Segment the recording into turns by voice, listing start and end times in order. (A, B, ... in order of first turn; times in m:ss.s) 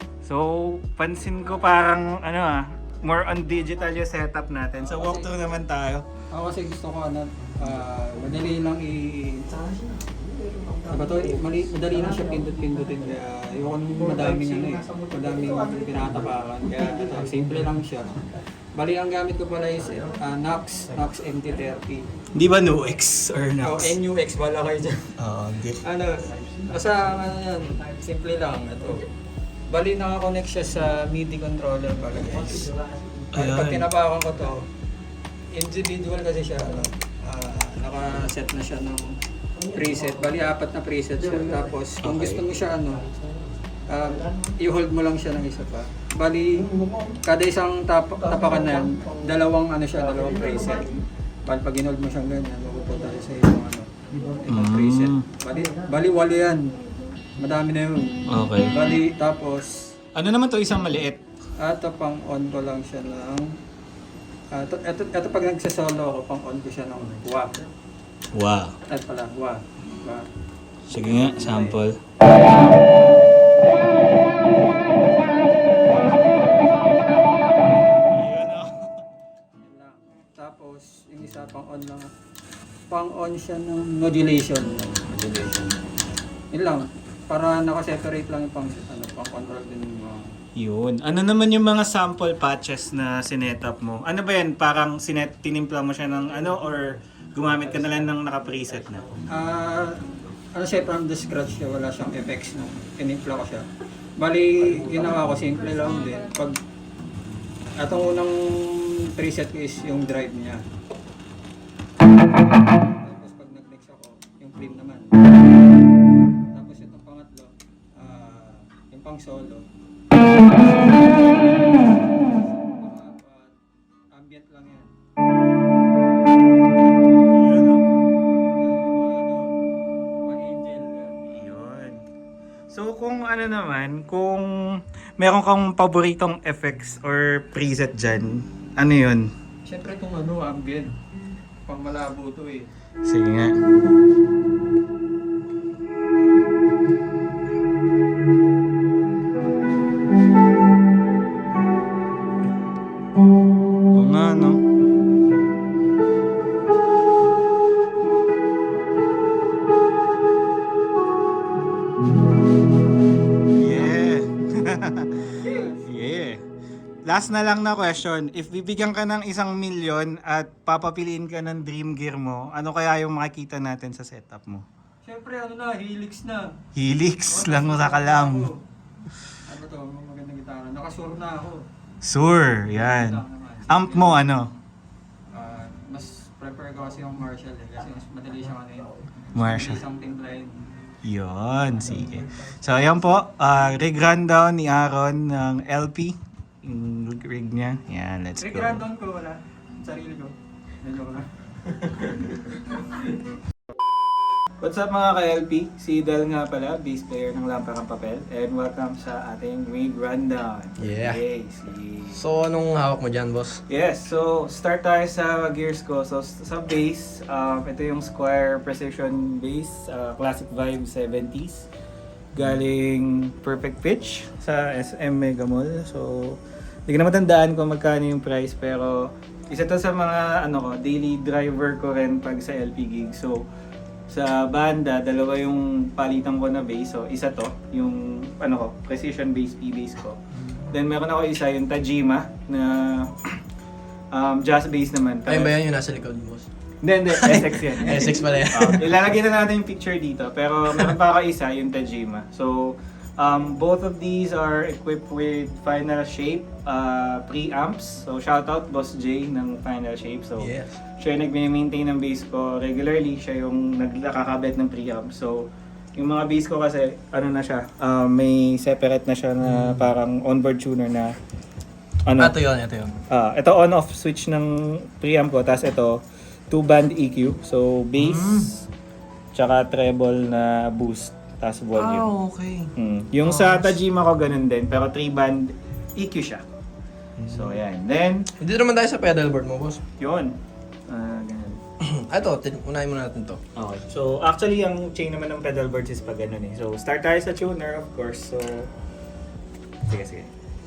0:00.2-0:06.1 A
0:03.0-0:04.0 B
0:04.8-0:05.3 B
0:06.3-0:09.6 B
0:10.0-0:10.7 C
0:10.9-0:22.1 B
0:14.0-0:16.1 A
0:22.3-0:24.0 A
0:23.6-0:25.2 B
0:25.2-0:25.8 A
0:25.4-0:25.8 C
0:25.8-0:29.1 B
0:29.7-0:32.7 B
0:32.4-0:33.3 C
0:33.3-0:33.9 A
0:33.3-0:34.7 B
0:35.5-0:39.2 B
0:39.6-0:40.4 C
0:39.7-0:43.0 B
0:41.3-0:41.7 C
0:42.0-0:42.5 A
0:43.9-0:46.7 B
0:46.6-0:47.2 C
0:47.2-0:51.0 B
0:48.2-0:49.2 C
0:51.5-0:56.8 B
0:54.5-0:55.3 A
0:57.4-0:59.9 B
0:58.3-0:58.8 A
1:00.1-1:01.2 A
1:01.6-1:03.5 B
1:04.5-1:07.7 B
1:08.3-1:08.8 A
1:08.9-1:10.3 B
1:10.9-1:12.0 A
1:14.9-1:18.0 B
1:18.1-1:19.0 A
1:19.6-1:22.1 B
1:22.9-1:25.7 B
1:26.5-1:30.3 B
1:30.6-1:39.2 A
1:39.3-1:43.7 B
1:44.2-1:46.6 B
1:47.8-1:50.6 B
1:52.9-1:55.2 B
1:56.5-1:59.7 B
2:00.5-2:03.6 B
2:04.1-2:04.9 B
2:07.3-2:07.9 A
2:08.6-2:09.5 B
2:10.2-2:11.4 B
2:11.3-2:12.0 A
2:12.7-2:14.5 A
2:15.2-2:19.3 A
2:19.6-2:21.0 B
2:21.7-2:22.7 B
2:23.0-2:23.6 A
2:33.9-2:34.6 A
2:43.6-2:46.4 A
2:45.4-2:45.9 B
2:47.1-2:54.7 A
2:55.0-2:56.6 B
2:56.7-2:58.5 A
2:57.3-2:58.6 B
2:59.5-3:01.6 B
3:02.0-3:04.5 A
3:02.8-3:04.2 B
3:05.3-3:10.6 B
3:09.3-3:09.8 A
3:11.0-3:18.8 A
3:11.8-3:12.6 C
3:18.4-3:21.3 B
3:21.9-3:22.2 C
3:24.6-3:32.2 A
3:30.8-3:31.2 C
3:32.2-3:33.6 C
3:33.7-3:41.7 A
3:42.3-3:53.4 A
3:54.1-4:03.4 A
4:04.1-4:05.6 A
4:05.3-4:06.5 C
4:06.8-4:31.1 A
4:07.1-4:08.9 C
4:20.4-4:20.8 C
4:29.4-4:29.9 C
4:32.1-4:32.4 A
4:32.2-4:33.0 C
4:33.1-4:38.6 A
4:38.0-4:38.3 C
4:39.3-4:46.5 A
4:43.2-4:43.8 C
4:47.2-4:47.6 C
4:47.2-4:48.3 A
4:48.4-4:49.8 C
4:50.0-4:50.4 A
4:50.9-4:51.6 A
4:51.8-4:53.4 C
4:53.6-4:58.7 A
4:59.9-5:00.3 A